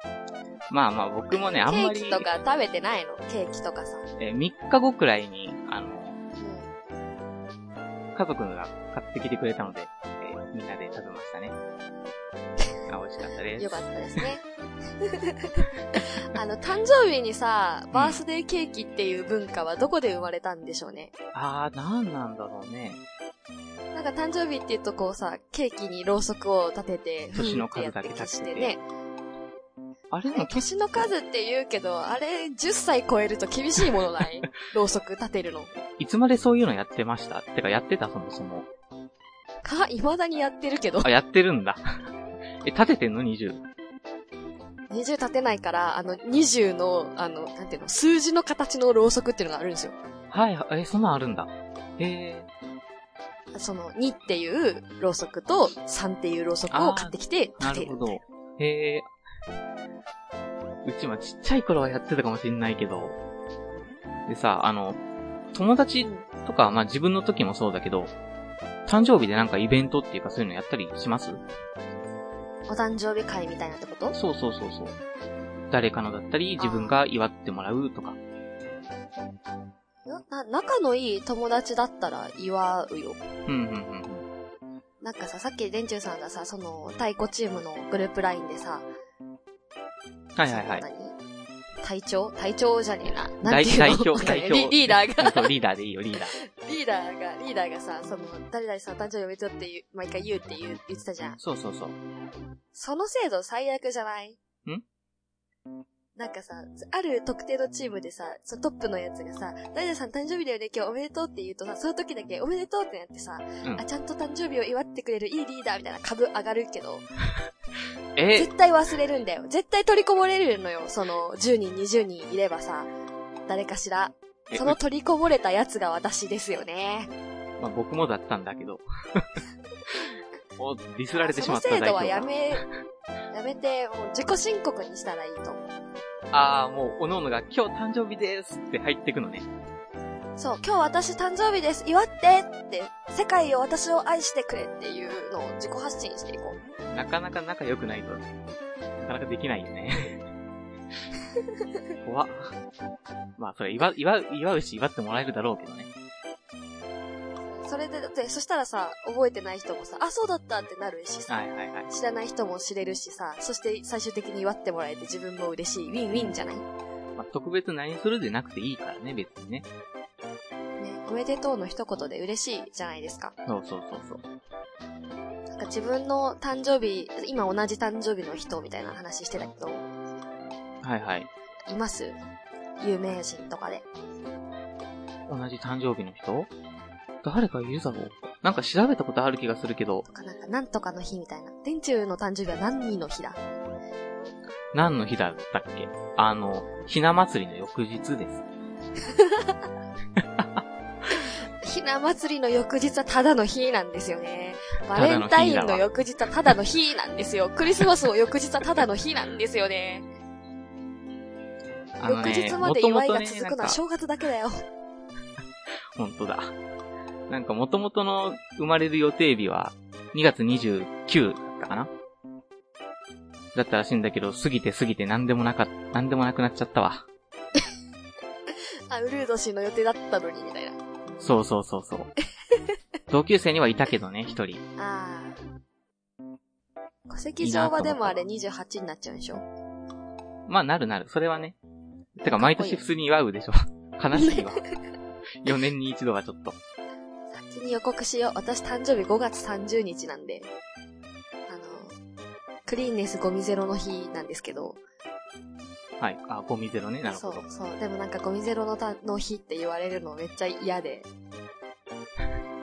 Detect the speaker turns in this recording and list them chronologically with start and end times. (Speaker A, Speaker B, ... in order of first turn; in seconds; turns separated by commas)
Speaker A: 0.7-2.3, Speaker B: 1.3-4.0, Speaker A: 4.2-6.2, Speaker B: 6.4-6.7, Speaker A: 8.1-11.5, Speaker A: 12.9-13.8, Speaker B: 13.6-14.4, Speaker B: 15.0-21.1, Speaker A: 17.9-18.2, Speaker A: 21.3-23.0, Speaker B: 23.9-28.8, Speaker A: 27.3-28.8, Speaker A: 30.1-31.1, Speaker B: 30.2-35.7, Speaker A: 35.9-38.7, Speaker B: 39.6-41.1, Speaker A: 41.0-41.8, Speaker A: 42.6-43.6, Speaker B: 44.9-49.9, Speaker A: 50.3-52.5, Speaker B: 53.5-58.1, Speaker A: 56.7-59.1, Speaker A: 60.8-63.2, Speaker A: 64.3-65.0, Speaker A: 65.5-68.1, Speaker A: 68.8-71.4, Speaker B: 72.7-74.2, Speaker A: 74.1-74.9, Speaker A: 75.7-78.2, Speaker B: 76.6-77.0, Speaker B: 80.1-83.2, Speaker A: 83.5-84.2, Speaker B: 85.0-88.8, Speaker A: 90.3-90.8, Speaker B: 90.5-91.2, Speaker B: 91.8-95.5, Speaker A: 93.4-96.3, Speaker B: 96.3-101.4, Speaker A: 101.4-102.0, Speaker B: 102.7-104.4, Speaker B: 106.2-117.0, Speaker A: 118.2-118.5, Speaker B: 118.3-122.9, Speaker B: 123.5-127.1, Speaker A: 124.5-124.8, Speaker A: 127.6-130.0, Speaker A: 130.6-132.3, Speaker B: 131.2-132.7, Speaker B: 133.3-135.6, Speaker A: 136.3-139.5, Speaker B: 140.4-146.6, Speaker A: 146.9-148.3, Speaker A: 149.0-150.2, Speaker A: 152.0-152.5, Speaker A: 153.4-155.9, Speaker B: 157.5-166.7, Speaker A: 161.3-161.9, Speaker A: 167.2-169.7, Speaker B: 170.8-173.3, Speaker A: 173.4-174.2, Speaker B: 175.5-179.8, Speaker A: 180.8-181.3, Speaker B: 181.7-182.2, Speaker B: 182.8-183.8, Speaker A: 185.3-186.5, Speaker A: 187.2-190.0, Speaker B: 190.1-193.4, Speaker A: 194.7-198.4, Speaker B: 199.1-199.5, Speaker A: 200.2-200.5, Speaker B: 201.6-210.1, Speaker A: 204.9-205.8, Speaker A: 212.0-213.8, Speaker B: 212.0-214.6, Speaker A: 215.9-216.5, Speaker A: 217.3-221.9, Speaker A: 223.5-227.0, Speaker B: 228.6-230.8, Speaker A: 231.2-232.1, Speaker A: 233.1-234.6, Speaker B: 234.8-235.4, Speaker B: 237.1-239.4, Speaker A: 237.4-238.2, Speaker A: 240.5-241.6, Speaker A: 242.2-244.6, Speaker B: 242.2-242.8, Speaker B: 244.1-244.5, Speaker A: 245.4-246.6, Speaker B: 247.3-250.5, Speaker B: 251.5-251.9, Speaker B: 252.7-254.8, Speaker A: 256.0-257.4, Speaker B: 257.1-261.1